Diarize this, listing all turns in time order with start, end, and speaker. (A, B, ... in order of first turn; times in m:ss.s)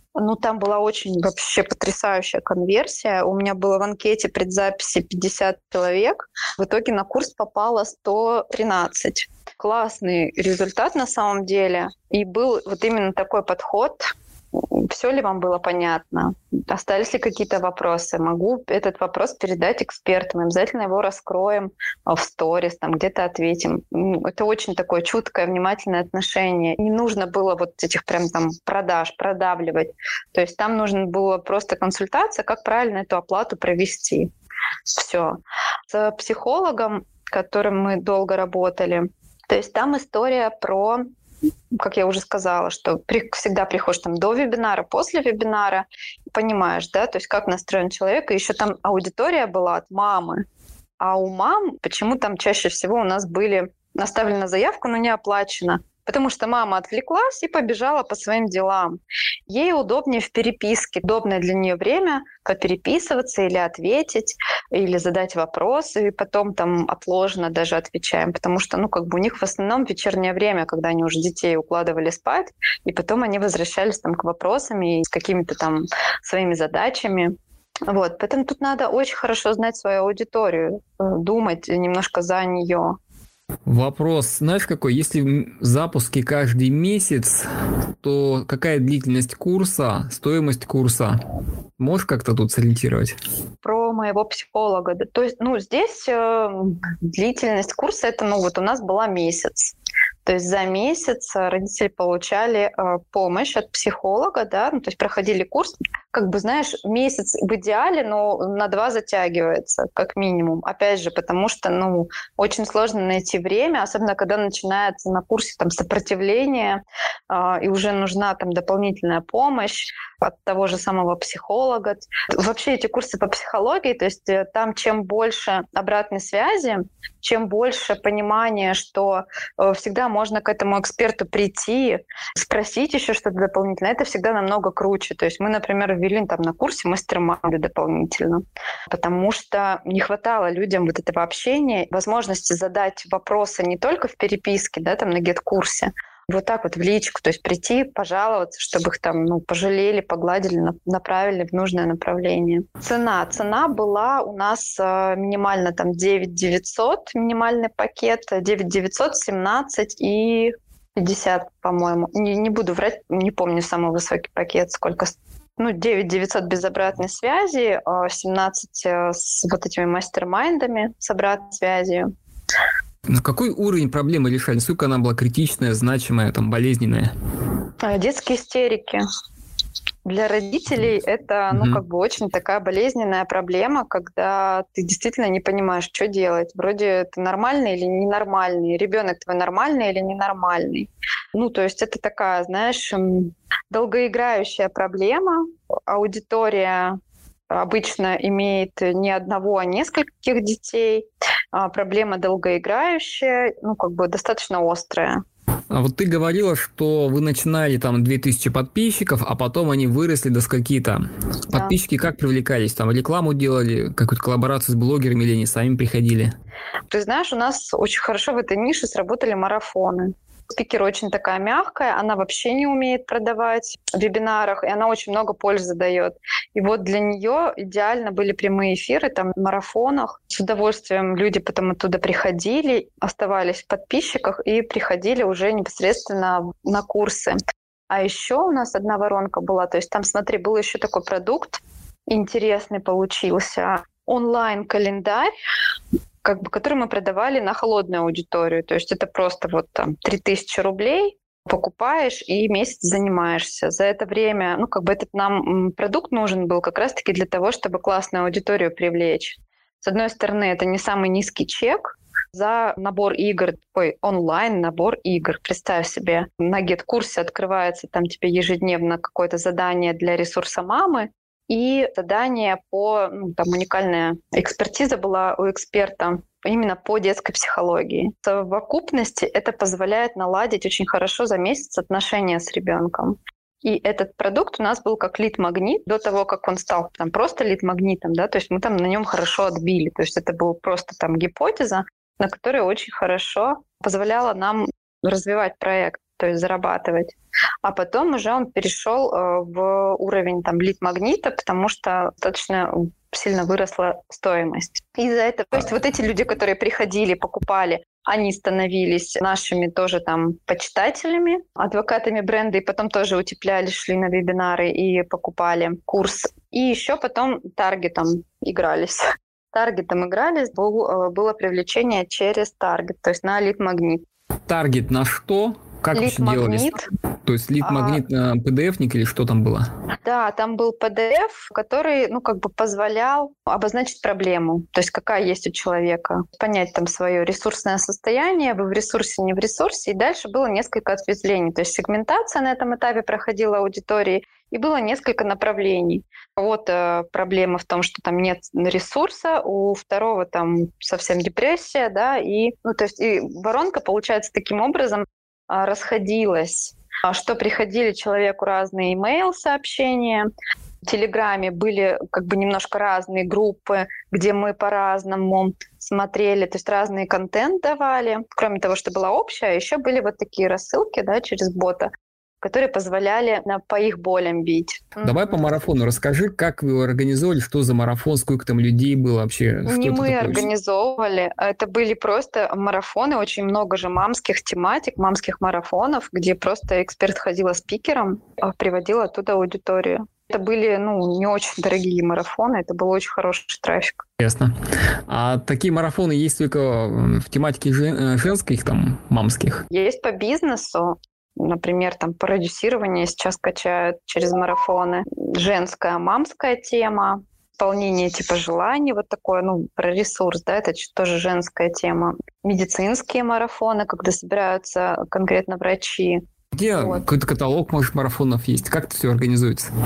0:00.2-0:34.3 A
0:34.9-0:41.0 A
0:41.7-0:50.4 A
0:51.0-0:59.0 A
0:59.5-1:17.3 A
1:17.9-1:23.0 A
1:23.7-1:27.5 B
1:28.0-1:31.2 B
1:31.8-1:33.1 B
1:33.6-1:39.7 A
1:40.2-2:52.1 A
2:53.1-2:57.1 B
2:57.8-2:59.0 A
3:00.0-3:17.0 A
3:01.5-3:01.8 B
3:17.5-3:25.2 A
3:25.7-3:36.3 B
3:31.5-3:31.8 A
3:36.9-3:57.4 A
3:57.9-4:05.3 A
4:06.2-5:24.0 A
5:24.5-5:26.7 B
5:25.9-5:26.8 A
5:27.2-5:29.7 B
5:27.6-5:28.0 A
5:30.0-6:00.3 A
6:00.8-6:11.9 A
6:12.4-6:15.5 A
6:15.0-6:20.5 B
6:19.7-6:34.0 A
6:34.2-6:34.5 B
6:35.1-6:39.6 B
6:39.7-6:56.2 A
6:56.5-6:59.7 B
6:56.7-6:57.0 A